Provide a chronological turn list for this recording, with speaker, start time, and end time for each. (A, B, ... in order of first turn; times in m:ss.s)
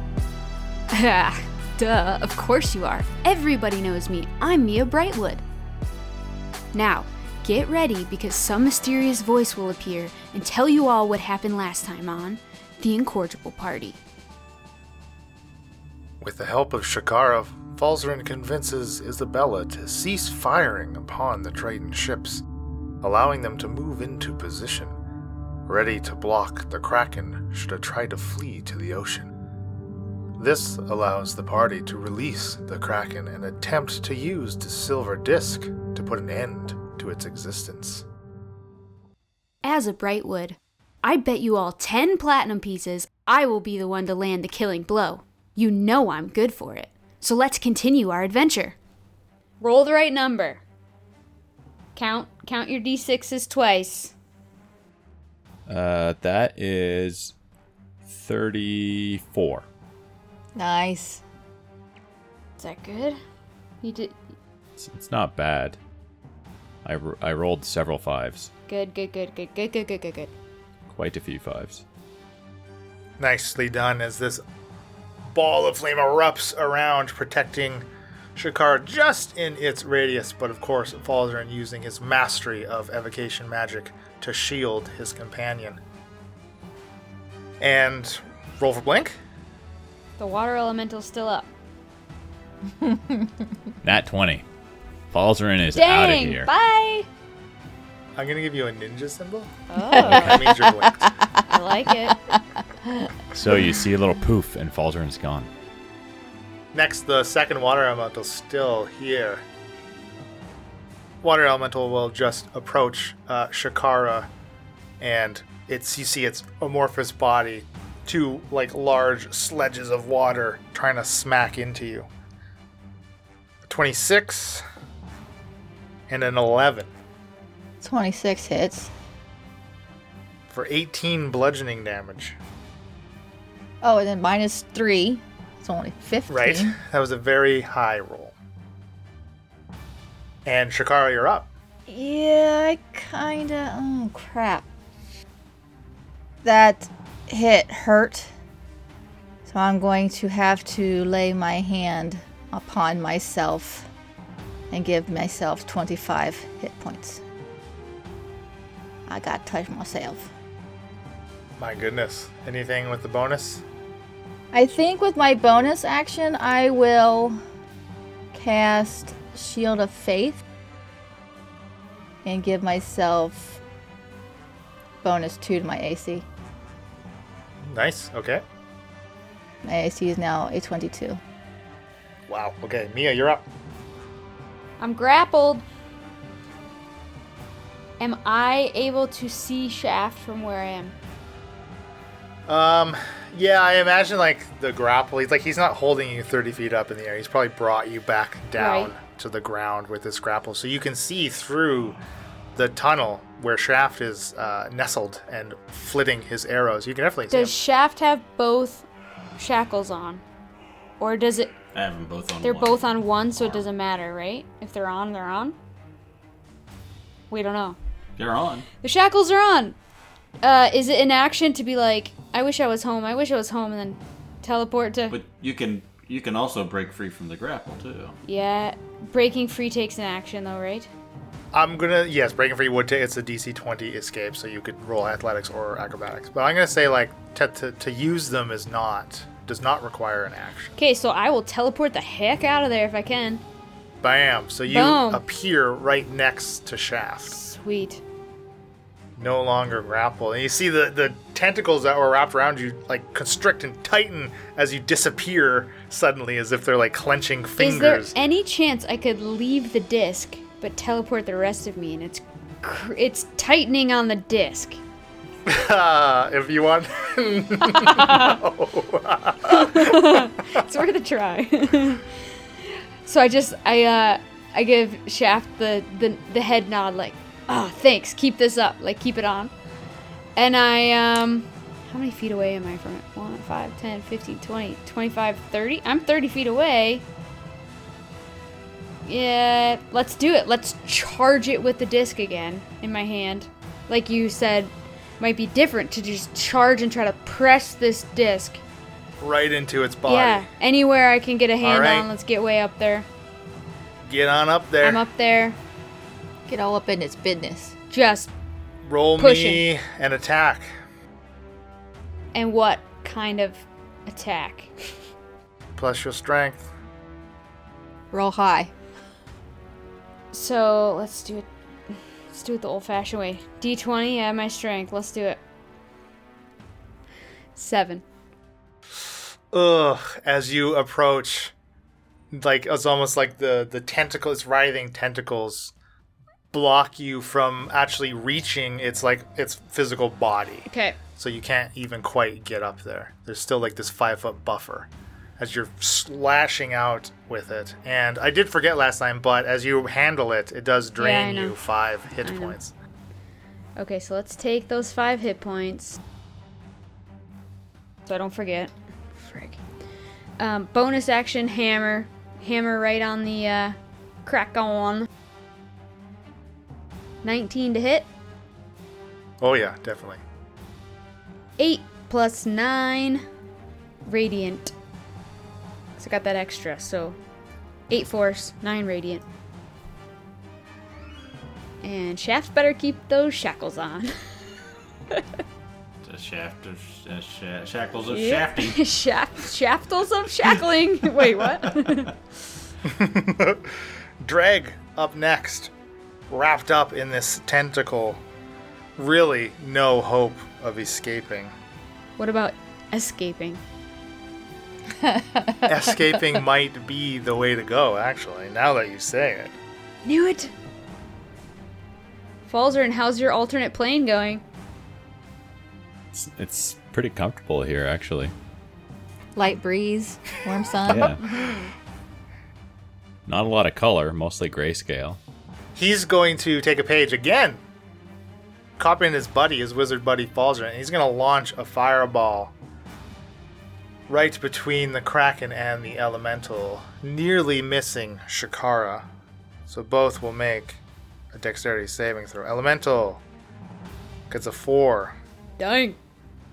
0:00.9-0:05.4 A
0:06.7-0:14.0 A
0:16.2-0:22.4 B
0:23.0-0:25.0 B
0:25.7-0:29.3 B
0:30.4-0:38.0 B
0:39.6-0:48.8 A
0:49.6-0:50.6 A
0:52.0-0:54.2 A
0:55.7-0:57.3 C
0:58.1-0:59.6 C
1:00.6-1:01.2 D
1:02.6-1:03.2 A
1:03.8-1:04.2 A
1:04.8-1:05.8 C
1:06.8-1:08.5 C
1:08.7-1:10.3 A
1:10.9-1:11.8 C
1:13.2-1:14.4 B
1:15.3-1:25.8 B
1:27.6-1:29.2 B
1:30.2-1:31.5 A
1:32.8-1:33.3 D
1:33.8-1:34.4 C
1:35.1-1:36.5 C
1:35.8-1:37.1 A
1:38.2-1:41.1 B
1:39.7-1:40.5 A
1:39.9-1:42.4 D
1:40.0-1:40.4 C
1:41.4-1:42.2 A
1:43.3-1:45.5 C
1:46.7-1:49.4 B
1:51.2-1:54.3 B
1:55.0-2:02.1 B
2:03.6-2:04.6 B
2:06.1-2:06.9 B
2:07.8-2:08.9 D
2:10.5-2:12.4 B
2:13.8-2:16.8 D
2:16.3-2:18.3 B
2:20.4-2:21.5 B
2:21.9-2:24.7 D
2:26.4-2:28.3 D
2:29.5-2:33.9 D
2:34.7-2:37.2 D
2:39.1-2:40.3 D
2:41.6-2:43.6 B
2:44.5-2:47.4 D
2:48.3-2:50.4 D
2:52.2-2:53.6 D
2:55.0-2:56.2 D
2:57.6-2:58.4 B
2:59.6-3:01.2 D
3:02.3-3:03.4 B
3:04.8-3:05.6 A
3:08.0-3:11.0 A
3:12.5-3:22.0 B
3:18.6-3:18.9 A
3:22.6-3:27.6 B
3:27.3-3:28.8 A
3:29.4-3:30.2 A
3:31.0-3:31.5 A
3:31.7-3:33.6 E
3:32.4-3:35.6 A
3:37.3-3:37.8 A
3:38.2-3:38.7 E
3:38.8-3:39.8 A
3:40.4-3:45.2 A
3:45.1-3:48.2 E
3:48.2-3:50.9 A
3:51.5-4:00.8 B
4:00.8-4:03.4 A
4:04.0-4:07.4 B
4:04.7-4:05.2 A
4:07.3-4:08.0 A
4:09.2-4:18.1 B
4:17.6-4:24.8 A
4:25.5-4:30.6 B
4:27.7-4:28.4 A
4:29.5-4:32.0 A
4:32.6-4:39.5 A
4:40.4-4:47.0 A
4:49.0-4:58.6 A
4:59.2-5:00.5 B
5:00.1-5:03.1 A
5:01.6-5:02.1 B
5:04.0-5:05.0 B
5:04.8-5:05.6 A
5:06.5-5:07.7 D
5:07.9-5:08.3 A
5:08.8-5:10.7 B
5:09.2-5:09.6 A
5:12.3-5:14.7 A
5:15.8-5:16.7 B
5:18.1-5:18.7 D
5:20.3-5:21.5 A
5:22.3-5:25.4 A
5:27.6-5:28.0 A
5:29.5-5:31.5 B
5:32.3-5:35.7 B
5:36.5-5:52.7 B
5:40.7-5:41.0 A
5:51.0-5:51.6 A
5:52.2-5:52.6 A
5:53.8-5:56.0 A
5:58.1-5:59.6 A
6:00.4-6:05.1 A
6:07.2-6:08.1 A
6:09.4-6:10.2 B
6:11.6-6:13.2 A
6:14.1-6:14.7 A
6:16.0-6:17.2 A
6:17.9-6:19.2 A
6:21.8-6:24.2 A
6:26.0-6:28.8 E
6:28.1-6:32.1 A
6:31.7-6:31.9 E
6:32.8-6:35.7 B
6:36.3-6:38.2 B
6:39.0-6:41.5 B
6:42.2-6:43.6 A
6:45.0-6:46.2 D
6:45.6-6:49.6 B
6:50.0-6:50.5 A
6:52.5-6:54.4 A
6:56.1-6:58.3 C
6:59.4-7:01.2 D
7:00.9-7:01.2 C
7:01.2-7:01.7 A
7:03.3-7:05.2 C
7:05.8-7:07.6 B
7:08.8-7:12.5 B
7:14.1-7:19.1 B
7:19.7-7:20.8 B
7:21.3-7:23.2 B
7:24.3-7:25.2 B
7:25.6-7:26.0 A